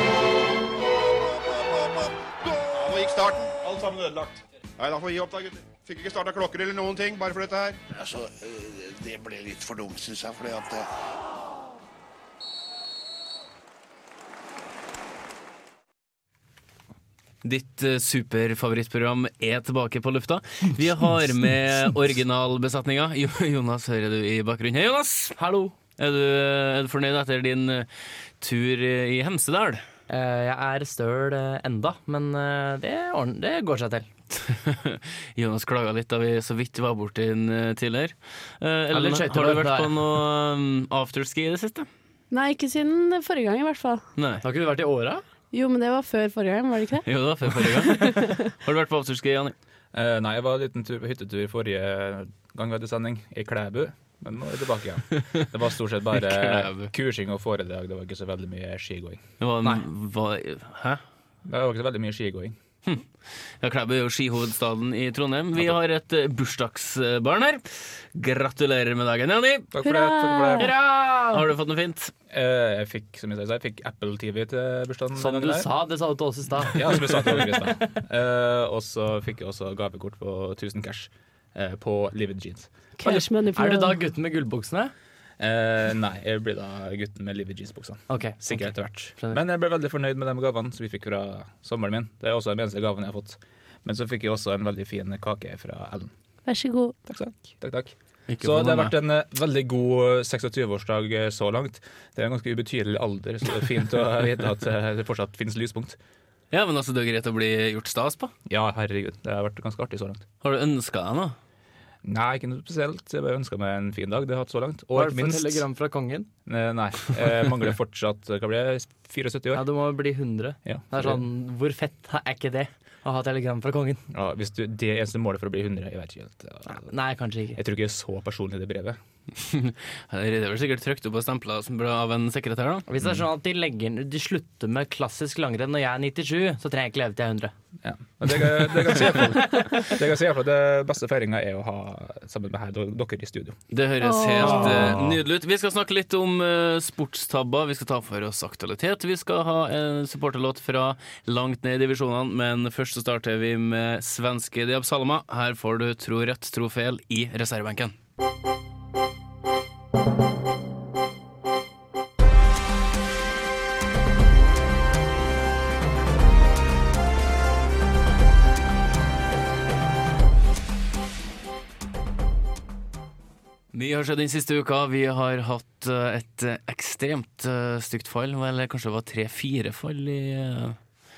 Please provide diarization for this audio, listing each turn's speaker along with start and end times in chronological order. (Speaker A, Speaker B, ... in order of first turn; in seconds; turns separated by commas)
Speaker A: 2.6-7.8, Speaker B: 7.9-10.9, Speaker C: 17.4-25.4, Speaker D: 25.4-25.8, Speaker C: 26.0-27.9, Speaker C: 28.4-29.8, Speaker D: 30.1-34.1, Speaker C: 34.3-41.9, Speaker D: 38.9-40.0, Speaker E: 42.3-44.0, Speaker C: 44.2-44.4, Speaker D: 44.4-45.2, Speaker E: 45.5-47.0, Speaker C: 47.0-49.5, Speaker E: 47.9-48.4, Speaker F: 49.9-59.2, Speaker C: 56.2-56.9, Speaker C: 59.4-61.0, Speaker F: 61.5-62.6, Speaker C: 63.6-69.7, Speaker F: 69.7-70.7, Speaker E: 69.8-70.6, Speaker C: 70.6-72.1, Speaker D: 70.6-71.4, Speaker F: 72.3-75.7, Speaker D: 75.2-77.8, Speaker F: 76.6-82.7, Speaker E: 83.0-84.0, Speaker D: 83.0-84.9, Speaker F: 85.4-96.1, Speaker D: 88.1-89.4, Speaker E: 96.5-97.0, Speaker F: 97.1-106.0, Speaker C: 98.3-99.0, Speaker C: 106.5-108.3, Speaker F: 108.5-110.2, Speaker C: 110.4-111.4, Speaker F: 112.0-115.7, Speaker D: 114.9-116.3, Speaker F: 116.5-119.6, Speaker D: 119.5-124.0, Speaker F: 120.7-121.2, Speaker F: 124.1-126.9, Speaker D: 126.7-127.6, Speaker F: 127.5-129.0, Speaker C: 129.4-132.8, Speaker D: 132.9-137.5, Speaker F: 137.8-143.6, Speaker D: 138.6-139.9, Speaker C: 143.7-157.9, Speaker E: 144.0-144.9, Speaker D: 144.5-144.8, Speaker F: 144.5-145.2, Speaker C: 173.7-180.8